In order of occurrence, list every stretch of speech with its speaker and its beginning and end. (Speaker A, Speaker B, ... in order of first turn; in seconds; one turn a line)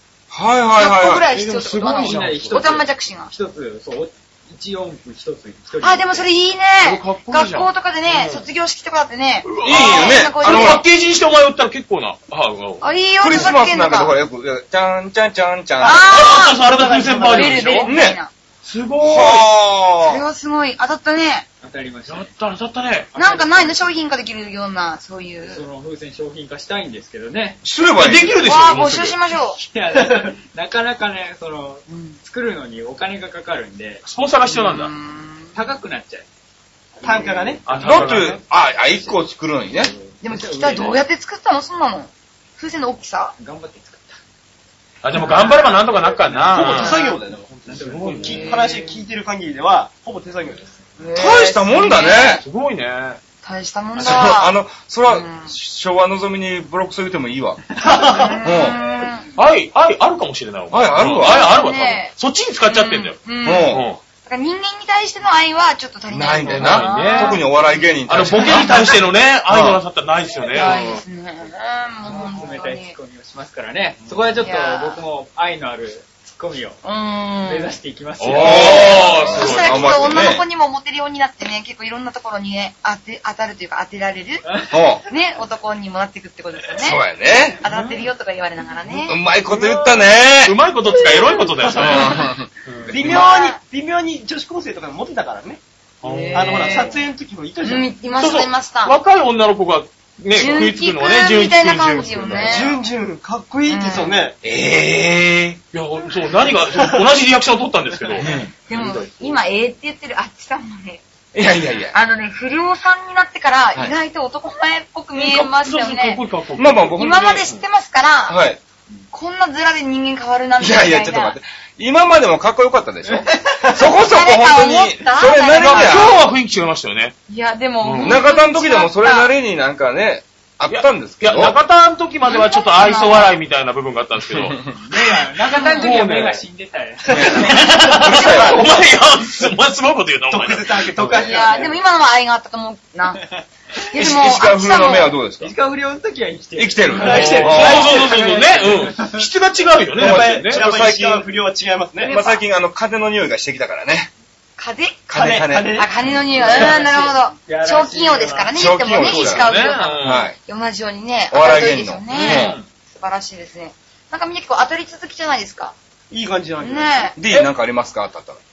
Speaker A: 0.3-1.2
Speaker B: 0.8-3.3
Speaker C: 1.2-2.7
Speaker D: 1.3-6.2
Speaker B: 5.8-10.8
Speaker C: 6.8-8.4
Speaker C: 9.4-12.8
Speaker A: 9.6-10.8
Speaker B: 12.8-14.2
Speaker A: 13.2-16.1
Speaker B: 15.8-16.6
Speaker E: 15.8-17.8
Speaker C: 16.1-17.9
Speaker B: 17.3-18.3
Speaker A: 17.9-18.2
Speaker C: 18.6-19.5
Speaker A: 19.0-20.2
Speaker B: 20.0-21.5
Speaker D: 21.6-22.3
Speaker C: 22.1-23.1
Speaker D: 23.1-23.9
Speaker B: 23.1-25.6
Speaker D: 25.4-27.6
Speaker A: 27.6-28.4
Speaker C: 27.9-29.2
Speaker B: 28.4-29.6
Speaker D: 29.5-34.0
Speaker E: 29.9-30.3
Speaker B: 31.9-32.2
Speaker C: 34.0-34.9
Speaker B: 34.5-35.6
Speaker D: 35.5-36.2
Speaker D: 37.0-39.2
Speaker E: 37.0-38.1
Speaker C: 37.6-38.4
Speaker A: 37.8-39.9
Speaker D: 39.7-41.0
Speaker B: 40.2-43.4
Speaker D: 43.4-44.2
Speaker C: 45.0-47.0
Speaker D: 45.2-48.6
Speaker E: 46.5-50.8
Speaker B: 46.6-47.1
Speaker C: 47.7-48.5
Speaker B: 48.2-49.0
Speaker B: 51.0-52.4
Speaker A: 51.1-52.4
Speaker C: 52.1-53.2
Speaker B: 53.4-55.5
Speaker A: 54.0-57.6
Speaker E: 57.8-58.4
Speaker B: 58.0-59.4
Speaker A: 58.4-58.8
Speaker C: 59.4-64.0
Speaker A: 60.7-61.5
Speaker B: 61.2-62.1
Speaker B: 62.6-69.0
Speaker A: 63.4-63.8
Speaker A: 66.1-68.9
Speaker C: 66.5-67.4
Speaker C: 68.1-71.0
Speaker A: 69.5-69.8
Speaker B: 70.5-73.0
Speaker D: 72.0-76.8
Speaker B: 74.3-75.0
Speaker B: 76.8-77.7
Speaker D: 77.4-79.1
Speaker C: 78.2-80.3
Speaker A: 78.3-80.4
Speaker B: 78.4-87.0
Speaker D: 84.5-84.8
Speaker A: 84.7-85.0
Speaker A: 86.8-87.6
Speaker B: 87.6-89.2
Speaker C: 87.7-88.0
Speaker A: 89.0-90.6
Speaker C: 89.5-93.0
Speaker B: 91.0-92.1
Speaker E: 91.6-92.0
Speaker A: 91.8-92.5
Speaker E: 92.9-95.6
Speaker B: 93.0-93.6
Speaker C: 96.0-96.9
Speaker B: 96.0-97.0
Speaker E: 96.3-97.9
Speaker B: 97.6-99.0
Speaker C: 98.2-102.8
Speaker B: 100.3-102.8
Speaker E: 102.4-104.3
Speaker B: 103.7-104.2
Speaker C: 104.4-109.4
Speaker E: 106.7-107.0
Speaker A: 108.2-108.5
Speaker B: 108.5-111.0
Speaker A: 111.3-111.9
Speaker B: 111.9-116.2
Speaker C: 115.1-117.6
Speaker A: 116.6-117.4
Speaker B: 116.8-118.4
Speaker A: 118.3-118.6
Speaker B: 119.1-121.4
Speaker A: 120.6-126.2
Speaker B: 123.9-126.1
Speaker C: 125.5-127.2
Speaker B: 127.3-129.3
Speaker C: 127.8-128.2
Speaker A: 128.0-131.6
Speaker C: 130.7-134.6
Speaker B: 132.2-133.3
Speaker D: 134.7-137.4
Speaker B: 135.5-136.0
Speaker C: 135.8-136.4
Speaker E: 137.1-138.6
Speaker A: 137.1-138.6
Speaker C: 137.3-141.1
Speaker B: 138.1-138.7
Speaker E: 140.3-141.8
Speaker B: 141.1-145.1
Speaker A: 143.9-145.5
Speaker D: 145.4-149.3
Speaker A: 146.6-147.9
Speaker C: 146.9-150.6
Speaker E: 147.0-148.2
Speaker A: 150.0-151.3
Speaker E: 150.0-152.1
Speaker B: 152.0-152.4
Speaker A: 152.1-154.1
Speaker B: 154.6-155.1
Speaker A: 155.1-155.8
Speaker E: 155.1-156.8
Speaker B: 155.7-165.7
Speaker D: 156.3-158.5
Speaker A: 158.5-159.5
Speaker C: 159.0-160.3
Speaker A: 160.0-160.3
Speaker A: 161.3-162.6
Speaker C: 162.1-162.6
Speaker D: 162.2-162.6
Speaker E: 166.1-167.1
Speaker B: 166.6-167.2
Speaker A: 167.2-168.4